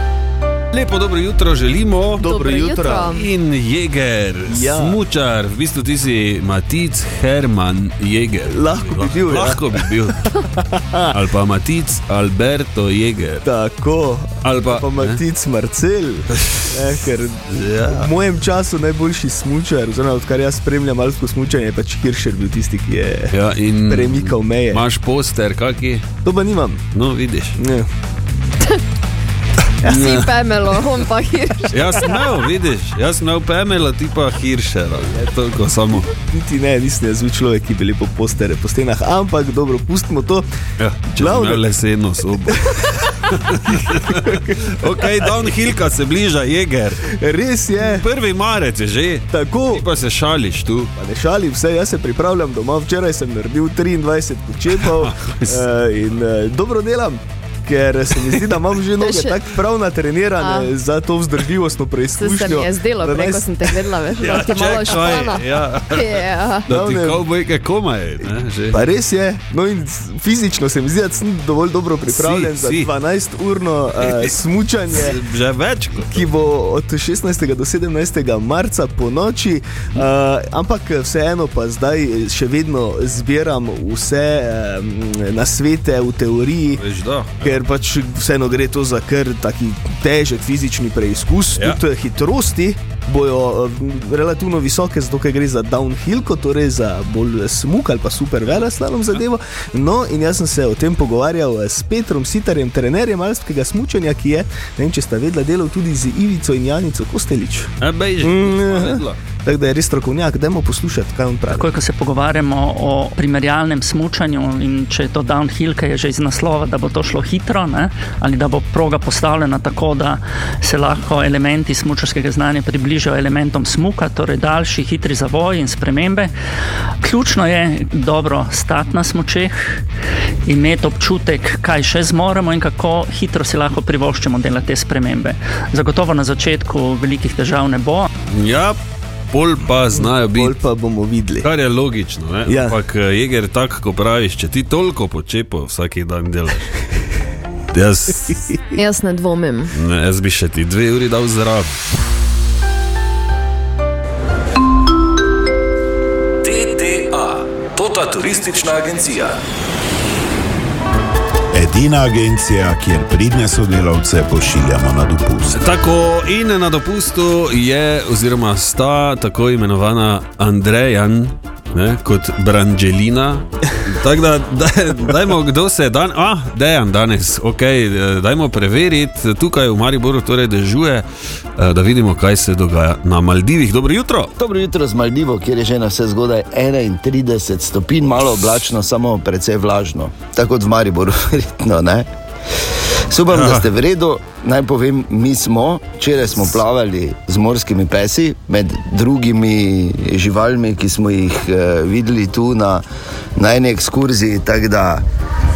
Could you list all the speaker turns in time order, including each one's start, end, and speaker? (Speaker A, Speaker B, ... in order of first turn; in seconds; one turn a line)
Speaker A: 0.7-2.3
Speaker B: 2.1-3.1
Speaker C: 2.3-3.3
Speaker A: 3.0-10.2
Speaker B: 4.5-5.0
Speaker B: 8.5-11.1
Speaker A: 11.1-13.4
Speaker B: 13.4-23.3
Speaker A: 14.4-15.2
Speaker A: 17.5-18.1
Speaker A: 23.3-26.1
Speaker B: 23.9-24.8
Speaker B: 26.2-26.8
Speaker A: 26.9-27.6
Speaker B: 27.6-27.9
Speaker C: 29.8-32.1
Speaker A: 29.8-30.9
Speaker A: 31.7-36.1
Speaker B: 36.0-40.4
Speaker A: 40.8-47.0
Speaker B: 41.1-41.7
Speaker B: 47.0-48.0
Speaker A: 47.8-50.9
Speaker B: 49.3-49.9
Speaker B: 51.0-64.1
Speaker A: 54.8-55.6
Speaker C: 59.0-59.4
Speaker C: 60.4-60.7
Speaker C: 62.2-66.7
Speaker A: 64.1-68.9
Speaker B: 66.7-67.2
Speaker B: 68.7-75.2
Speaker A: 72.1-72.9
Speaker A: 74.0-74.3
Speaker A: 74.9-76.3
Speaker B: 76.1-86.8
Speaker A: 86.7-87.6
Speaker B: 87.4-107.7
Speaker A: 107.8-109.2
Speaker B: 108.2-111.7
Speaker D: 111.5-126.3
Speaker D: 127.0-129.8
Speaker D: 130.4-138.1
Speaker A: 138.3-138.8
Speaker A: 139.3-140.6
Speaker B: 139.9-141.5
Speaker A: 141.4-146.8
Speaker B: 142.4-142.8
Speaker A: 147.7-148.6
Speaker C: 148.7-149.7
Speaker A: 149.7-151.8
Speaker E: 161.5-165.6
Speaker A: 165.5-181.1
Speaker A: 181.6-184.3
Speaker F: 184.4-192.1
Speaker F: 193.1-202.8
Speaker A: 193.3-193.7
Speaker F: 203.4-205.0